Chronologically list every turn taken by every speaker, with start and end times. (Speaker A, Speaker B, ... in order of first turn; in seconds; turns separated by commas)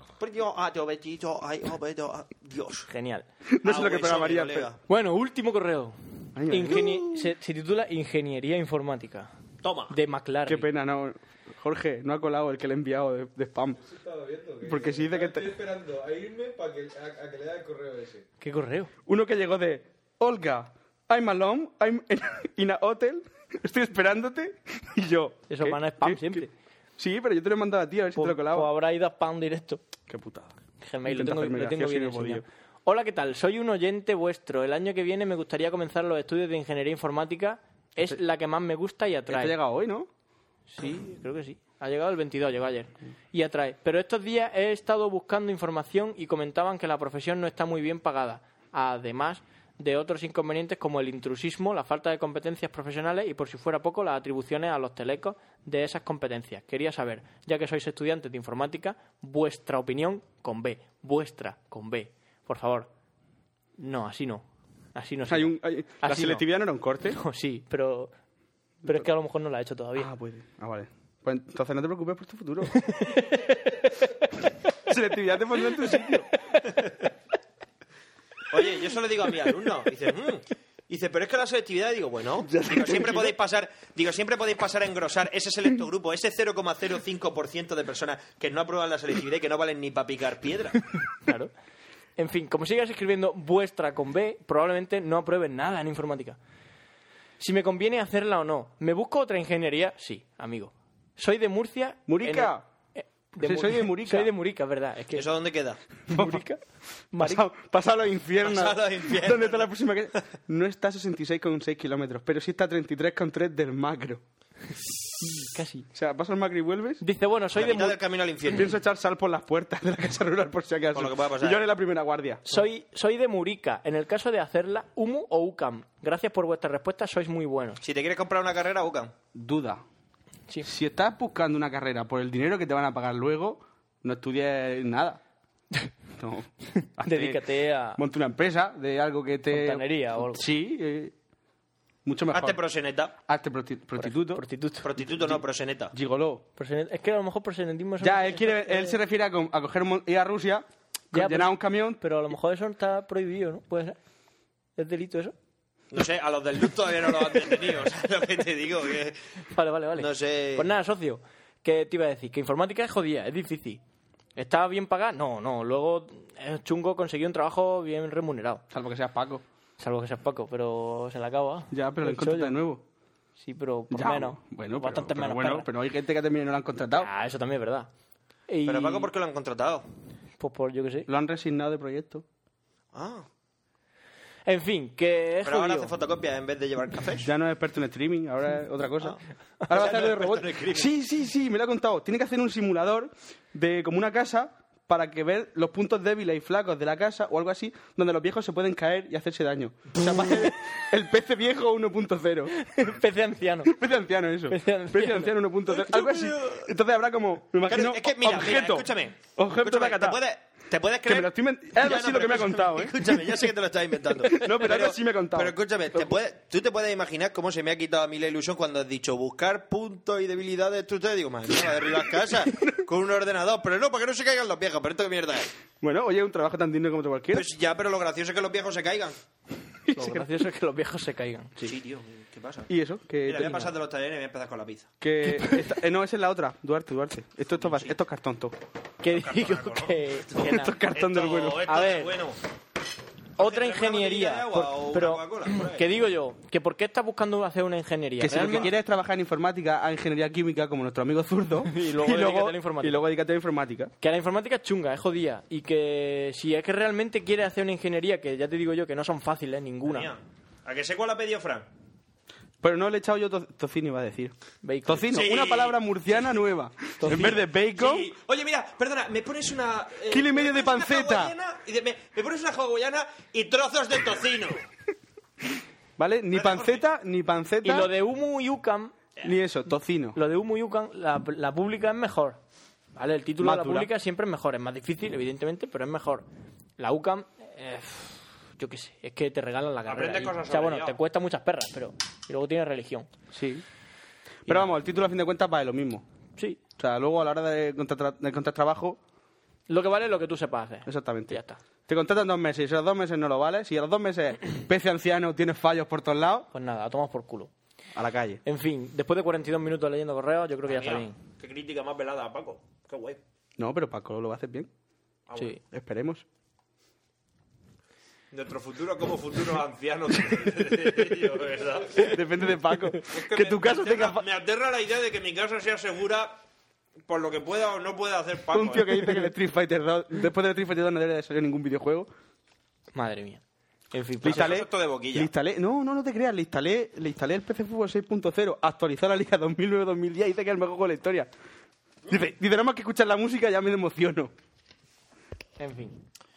Speaker A: 0.2-2.9, Speaker B: 2.9-3.2, Speaker C: 3.5-4.7, Speaker A: 3.6-4.8, Speaker B: 4.9-9.3, Speaker C: 6.3-7.3, Speaker A: 9.6-9.9, Speaker B: 9.9-10.7, Speaker C: 10.4-13.8, Speaker D: 13.8-18.2, Speaker C: 14.6-15.5, Speaker B: 18.4-18.9, Speaker C: 19.1-26.5, Speaker B: 25.5-26.5, Speaker C: 27.0-28.7, Speaker B: 28.1-29.8, Speaker C: 30.1-32.5, Speaker B: 30.8-39.6, Speaker C: 39.3-40.1, Speaker B: 40.7-62.9, Speaker B: 63.8-66.4, Speaker C: 65.3-67.2, Speaker B: 67.1-68.1, Speaker B: 68.8-70.1, Speaker C: 70.0-72.9, Speaker B: 72.8-73.4, Speaker C: 74.8-76.3, Speaker A: 78.5-90.8, Speaker C: 82.4-83.3, Speaker B: 91.2-91.5, Speaker B: 92.2-96.4, Speaker B: 97.4-105.3, Speaker C: 102.1-102.7, Speaker C: 103.3-104.3, Speaker A: 105.1-105.8, Speaker C: 106.1-106.4, Speaker B: 106.1-106.6, Speaker B: 107.1-107.4, Speaker C: 107.1-114.2, Speaker A: 108.4-110.2, Speaker B: 115.5-115.8, Speaker C: 115.9-117.0, Speaker B: 117.0-118.0, Speaker A: 117.5-118.7, Speaker C: 118.5-122.6, Speaker A: 120.9-121.6, Speaker B: 122.5-127.8, Speaker A: 127.8-129.1, Speaker C: 129.3-129.8, Speaker C: 130.6-135.2, Speaker C: 136.2-141.1, Speaker B: 136.8-138.0, Speaker B: 139.5-140.5, Speaker C: 142.0-142.6, Speaker A: 142.3-143.1, Speaker C: 143.3-144.4, Speaker B: 143.9-144.9, Speaker A: 144.8-145.9, Speaker C: 145.1-145.4, Speaker C: 145.9-146.4, Speaker B: 146.6-149.0, Speaker C: 148.0-152.0, Speaker B: 151.1-154.0, Speaker B: 154.8-155.3, Speaker A: 155.9-159.2, Speaker B: 159.5-163.8, Speaker A: 159.9-160.7, Speaker B: 164.3-168.6, Speaker C: 168.7-169.4, Speaker B: 169.8-172.6, Speaker C: 171.7-172.8, Speaker B: 173.4-175.7, Speaker C: 173.9-177.1, Speaker B: 177.0-177.9, Speaker B: 178.5-179.1, Speaker A: 178.7-179.9, Speaker B: 180.4-181.1, Speaker C: 181.1-182.2, Speaker A: 182.9-183.3, Speaker B: 184.4-185.9, Speaker A: 185.4-187.3, Speaker C: 187.2-202.5, Speaker A: 189.7-190.9, Speaker B: 202.6-203.7, Speaker C: 203.6-210.2, Speaker B: 204.5-205.4, Speaker A: 205.7-206.7, Speaker A: 207.7-225.5, Speaker C: 211.1-213.1, Speaker C: 214.3-215.5, Speaker C: 225.8-227.5, Speaker A: 227.3-229.2, Speaker B: 229.9-231.5, Speaker C: 229.9-230.2, Speaker A: 231.6-232.7, Speaker C: 232.7-233.7, Speaker A: 233.2-234.9, Speaker C: 235.0-238.6, Speaker B: 235.3-235.6, Speaker A: 237.6-237.9, Speaker B: 239.0-240.8, Speaker A: 239.1-240.1, Speaker C: 240.3-241.7, Speaker A: 240.9-242.4, Speaker B: 241.7-242.1, Speaker A: 243.4-245.9, Speaker B: 243.4-248.7, Speaker C: 248.2-253.9, Speaker A: 248.3-248.7, Speaker B: 251.6-253.0, Speaker B: 254.0-260.1, Speaker A: 259.8-261.7, Speaker C: 262.6-264.3, Speaker B: 264.6-265.1, Speaker C: 264.8-268.1, Speaker A: 265.1-265.9, Speaker B: 267.0-267.3, Speaker A: 267.1-274.6, Speaker C: 270.1-271.3, Speaker C: 276.0-277.9, Speaker A: 276.3-276.8, Speaker B: 277.6-278.9, Speaker C: 279.2-280.2, Speaker B: 280.1-282.4, Speaker B: 282.9-286.2, Speaker C: 283.4-283.9, Speaker B: 286.8-293.1, Speaker A: 289.9-291.0, Speaker C: 293.3-293.6, Speaker C: 294.4-296.0, Speaker C: 296.8-299.0, Speaker B: 299.7-301.6, Speaker C: 300.9-306.5, Speaker B: 306.5-307.5, Speaker C: 307.9-308.4, Speaker B: 308.4-311.2, Speaker A: 310.7-313.2, Speaker C: 313.6-314.7, Speaker A: 315.3-315.6, Speaker C: 315.7-316.2, Speaker A: 318.3-322.2, Speaker C: 322.0-324.2, Speaker A: 323.1-326.4, Speaker A: 327.1-329.2, Speaker C: 328.5-332.1, Speaker B: 332.9-334.6, Speaker C: 334.2-341.3, Speaker A: 334.2-335.3, Speaker C: 342.1-344.3, Speaker B: 345.6-346.0